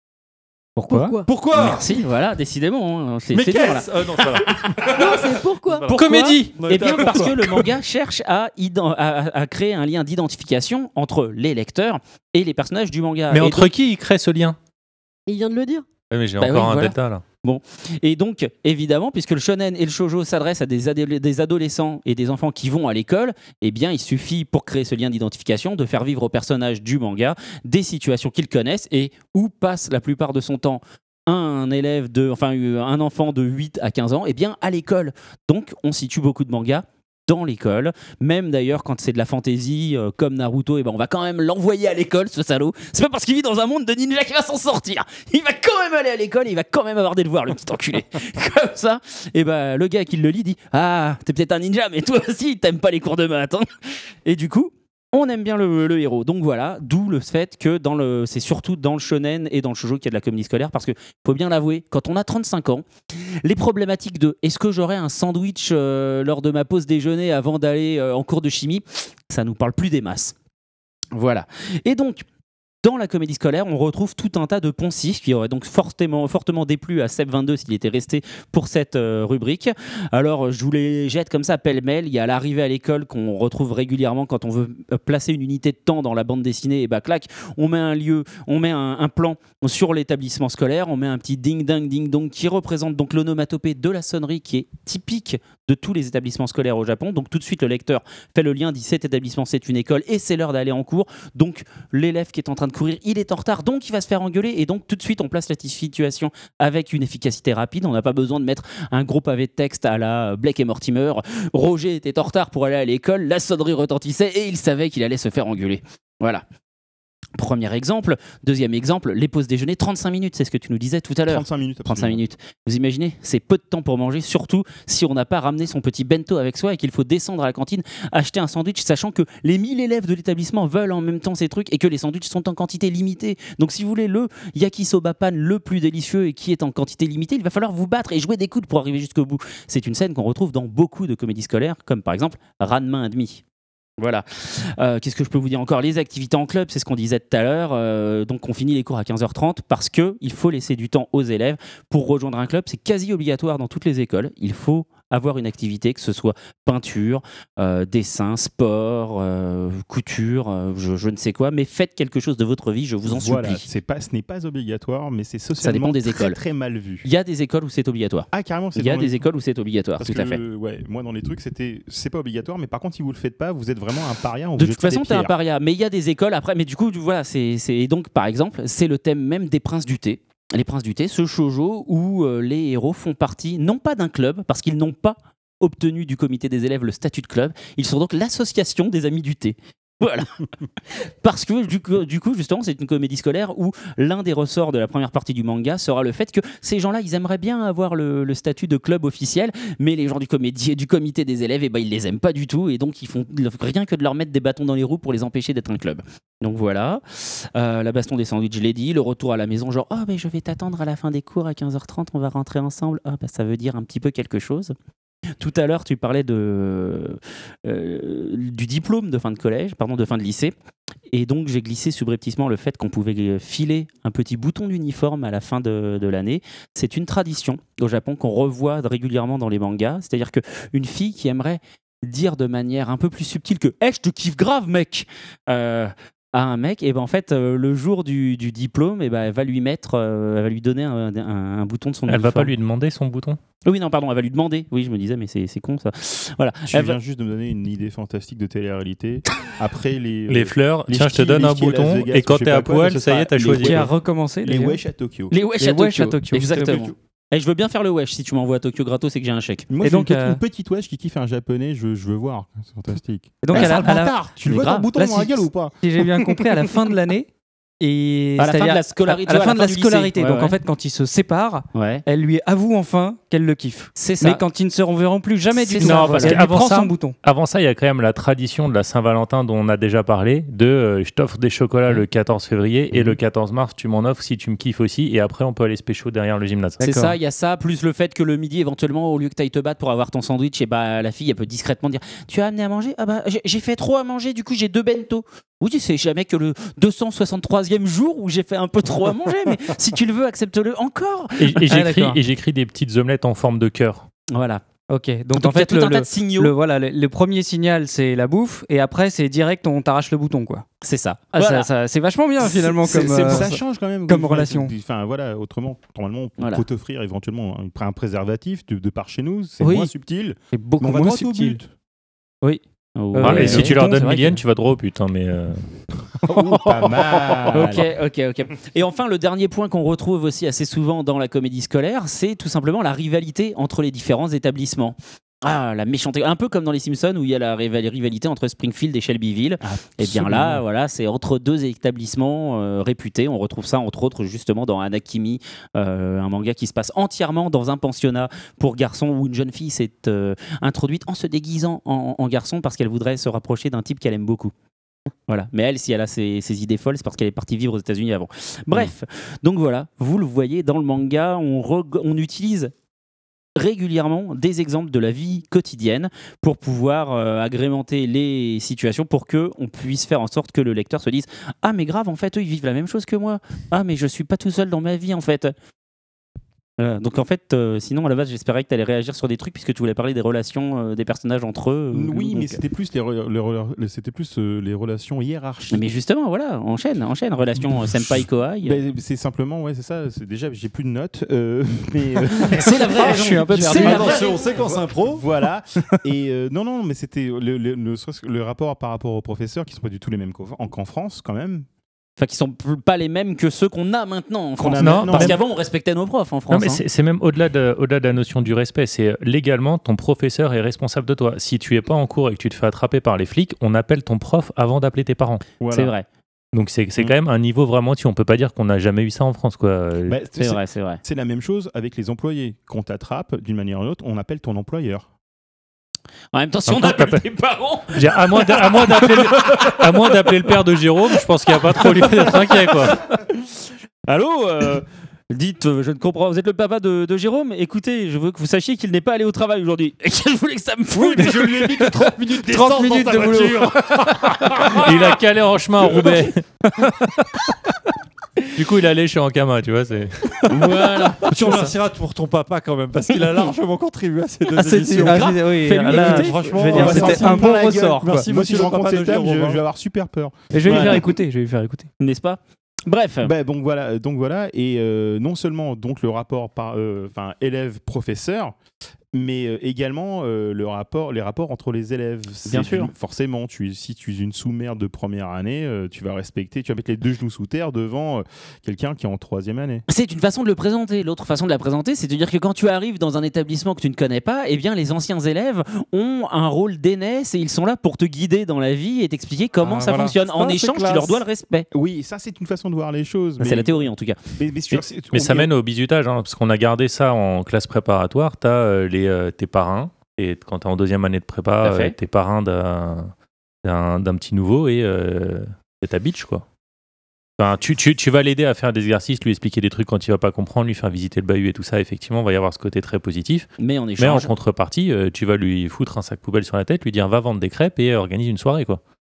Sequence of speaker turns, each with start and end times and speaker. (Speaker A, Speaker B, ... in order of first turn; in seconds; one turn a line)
Speaker A: 0.8-1.2
Speaker B: 0.9-1.3
Speaker C: 1.2-2.0
Speaker D: 1.5-4.0
Speaker C: 3.3-7.7
Speaker B: 4.9-6.0
Speaker D: 5.9-13.7
Speaker E: 5.9-7.2
Speaker E: 13.3-14.6
Speaker B: 15.3-15.9
Speaker E: 16.1-17.2
Speaker D: 16.4-53.7
Speaker D: 54.2-70.3
Speaker D: 71.1-72.2
Speaker D: 72.8-116.4
Speaker D: 117.4-143.4
Speaker F: 121.3-122.2
Speaker D: 144.0-163.7
Speaker F: 163.1-167.1
Speaker D: 165.6-166.4
Speaker D: 167.0-170.4
Speaker F: 168.3-169.2
Speaker F: 170.0-175.3
Speaker D: 174.6-190.3
Speaker D: 190.9-214.7
Speaker D: 215.4-220.5
Speaker D: 221.1-242.5
Speaker E: 242.1-243.4
Speaker D: 243.6-247.0
Speaker F: 246.7-255.3
Speaker E: 250.3-253.9
Speaker A: 253.6-254.8
Speaker D: 255.3-259.7
Speaker A: 255.6-256.9
Speaker F: 259.7-266.7
Speaker A: 259.8-260.4
Speaker A: 263.4-264.2
Speaker D: 263.5-265.0
Speaker A: 265.8-267.3
Speaker A: 267.8-277.1
Speaker D: 268.4-270.6
Speaker D: 271.7-272.0
Speaker D: 273.9-274.4
Speaker D: 275.5-276.5
Speaker E: 275.8-287.0
Speaker D: 286.8-301.7
Speaker A: 286.8-287.1
Speaker E: 301.4-304.1
Speaker A: 301.7-302.2
Speaker D: 304.3-304.6
Speaker A: 304.9-310.6
Speaker D: 305.3-306.5
Speaker D: 310.8-311.7
Speaker A: 311.3-314.7
Speaker D: 312.4-313.5
Speaker F: 313.2-321.7
Speaker D: 316.4-316.6
Speaker A: 319.6-319.9
Speaker A: 320.5-321.6
Speaker D: 323.0-323.8
Speaker A: 323.1-324.4
Speaker E: 323.2-325.6
Speaker F: 326.3-327.9
Speaker D: 327.5-354.5
Speaker F: 339.6-340.6
Speaker D: 355.3-362.7
Speaker D: 363.6-375.5
Speaker D: 376.8-382.6
Speaker F: 381.9-385.9
Speaker D: 385.7-388.8
Speaker F: 387.6-393.2
Speaker D: 392.4-394.6
Speaker A: 393.0-394.3
Speaker C: 393.0-395.2
Speaker F: 393.8-401.7
Speaker D: 402.2-406.8
Speaker F: 404.6-405.4
Speaker E: 404.8-405.4
Speaker E: 406.5-415.4
Speaker F: 415.6-415.9
Speaker D: 415.7-416.1
Speaker E: 416.5-420.2
Speaker F: 420.1-425.1
Speaker D: 420.4-421.0
Speaker D: 426.3-430.2
Speaker E: 426.7-427.2
Speaker E: 427.9-433.0
Speaker D: 431.7-433.3
Speaker D: 434.1-441.9
Speaker C: 440.9-445.2
Speaker A: 442.4-443.8
Speaker E: 444.8-446.4
Speaker C: 445.9-446.2
Speaker E: 448.6-451.2
Speaker D: 450.5-451.7
Speaker C: 451.2-459.6
Speaker A: 454.6-458.3
Speaker D: 454.9-457.1
Speaker F: 456.7-461.0
Speaker A: 460.5-461.9
Speaker D: 460.6-461.0
Speaker D: 462.0-463.3
Speaker F: 463.2-468.6
Speaker F: 469.1-479.9
Speaker D: 472.5-472.9
Speaker D: 479.9-491.7
Speaker A: 489.6-491.2
Speaker F: 491.7-495.5
Speaker D: 493.4-494.2
Speaker E: 495.1-503.1
Speaker D: 501.6-501.9
Speaker E: 503.6-506.4
Speaker E: 507.4-518.8
Speaker D: 513.6-514.3